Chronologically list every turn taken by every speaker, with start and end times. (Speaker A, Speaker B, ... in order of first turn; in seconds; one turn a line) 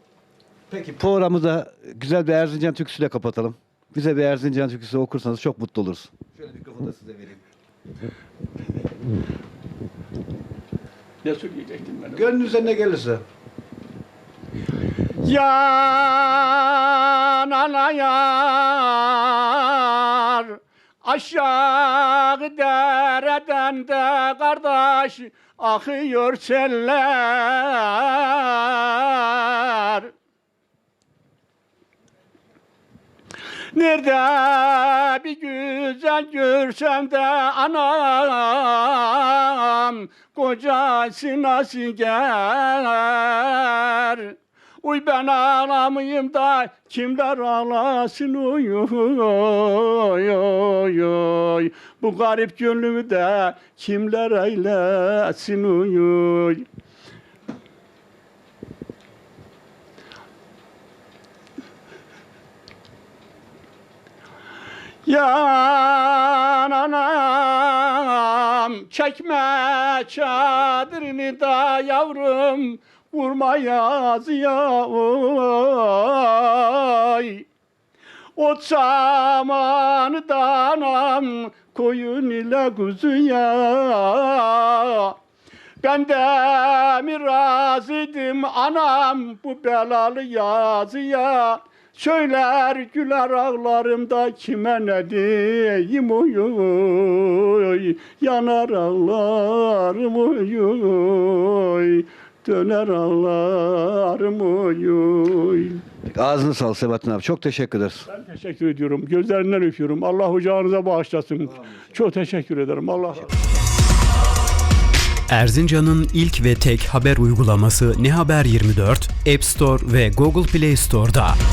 Speaker A: 0.7-7.4
Speaker B: 11.2-12.2
Speaker A: 12.1-13.2
Speaker B: 15.2-30.1
Speaker B: 33.7-56.6
Speaker B: 65.0-77.4
Speaker B: 78.3-85.2
Speaker B: 85.8-105.8
Speaker A: 106.0-108.1
Speaker B: 108.1-113.5
Speaker A: 111.5-111.8
Speaker C: 115.3-121.4